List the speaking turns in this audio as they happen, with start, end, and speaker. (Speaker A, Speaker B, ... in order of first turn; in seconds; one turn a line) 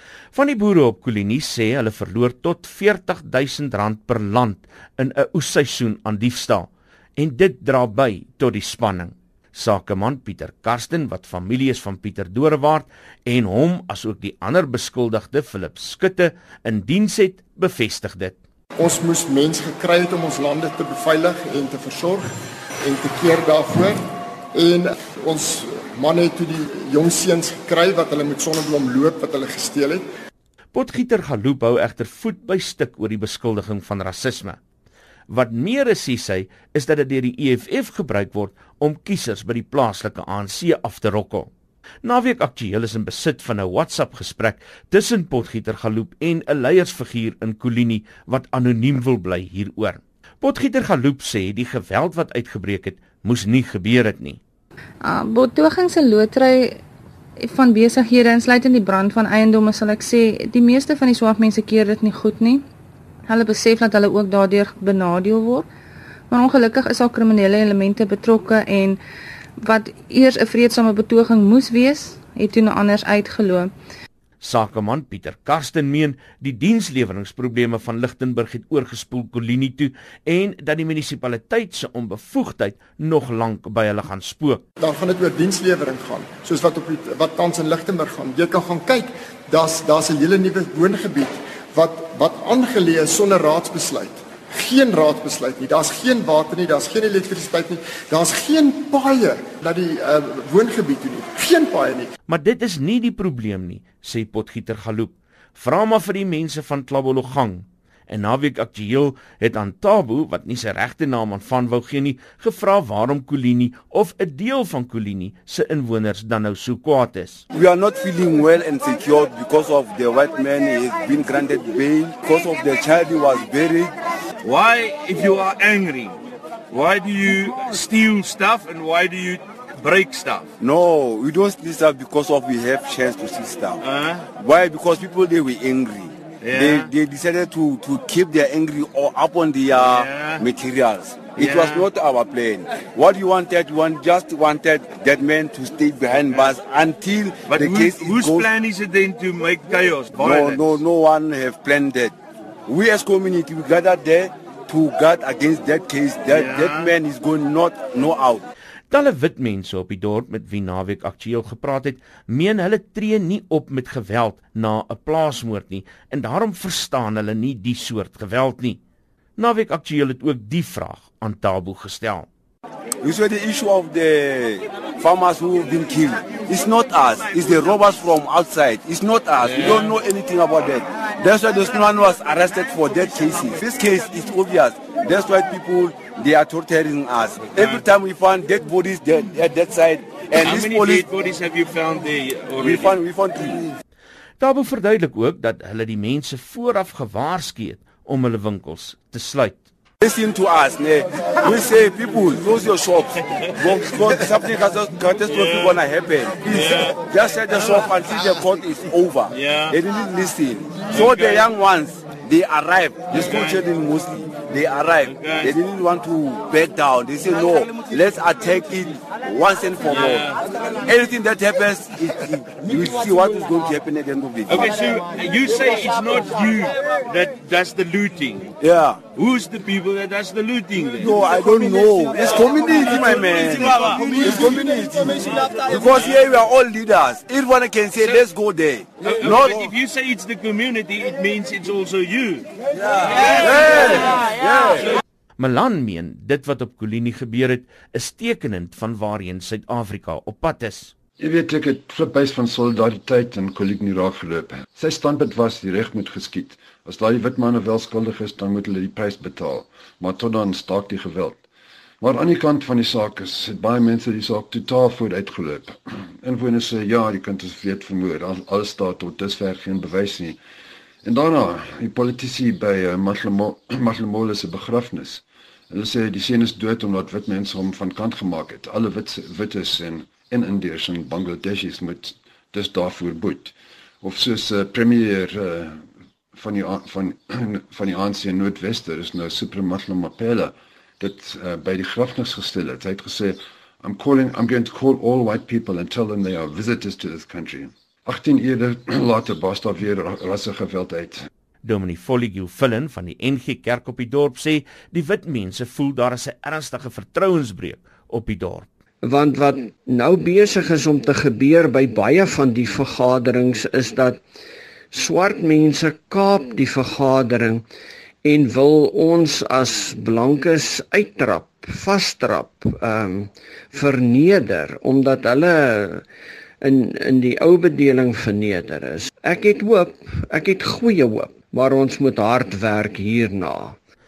Speaker A: 0.3-18.4
Speaker B: 18.8-22.3
Speaker B: 22.8-24.0
Speaker B: 24.5-30.0
Speaker A: 30.7-34.6
Speaker A: 35.3-41.5
Speaker A: 42.0-54.4
Speaker C: 55.1-56.8
Speaker C: 57.4-62.6
Speaker C: 63.3-65.7
Speaker C: 66.3-69.0
Speaker C: 69.6-73.7
Speaker A: 74.4-84.6
Speaker B: 84.8-102.1
Speaker A: 102.3-117.4
Speaker D: 117.5-124.0
Speaker E: 124.4-126.2
Speaker E: 126.7-130.5
Speaker D: 130.6-133.8
Speaker E: 133.8-134.2
Speaker D: 134.3-148.5
Speaker E: 136.5-136.9
Speaker E: 139.8-140.4
Speaker E: 141.4-141.8
Speaker E: 147.5-150.7
Speaker D: 150.1-152.2
Speaker D: 152.7-158.5
Speaker E: 156.4-156.9
Speaker A: 158.9-168.8
Speaker A: 169.4-172.3
Speaker D: 173.0-191.1
Speaker E: 190.4-192.9
Speaker D: 192.6-193.8
Speaker A: 194.4-199.6
Speaker D: 200.0-224.8
Speaker E: 205.3-205.6
Speaker E: 209.4-209.8
Speaker E: 213.3-213.6
Speaker E: 215.1-215.5
Speaker E: 219.9-220.3
Speaker E: 224.5-228.5
Speaker D: 228.6-229.1
Speaker E: 229.2-231.1
Speaker D: 231.0-239.7
Speaker E: 233.1-234.3
Speaker E: 239.2-242.5
Speaker D: 242.8-245.0
Speaker A: 245.4-250.9
Speaker F: 251.2-261.4
Speaker F: 262.0-270.4
Speaker F: 271.0-285.8
Speaker F: 286.3-301.3
Speaker A: 301.6-308.7
Speaker G: 309.0-314.2
Speaker G: 314.9-317.6
Speaker G: 318.2-326.1
Speaker G: 326.6-333.8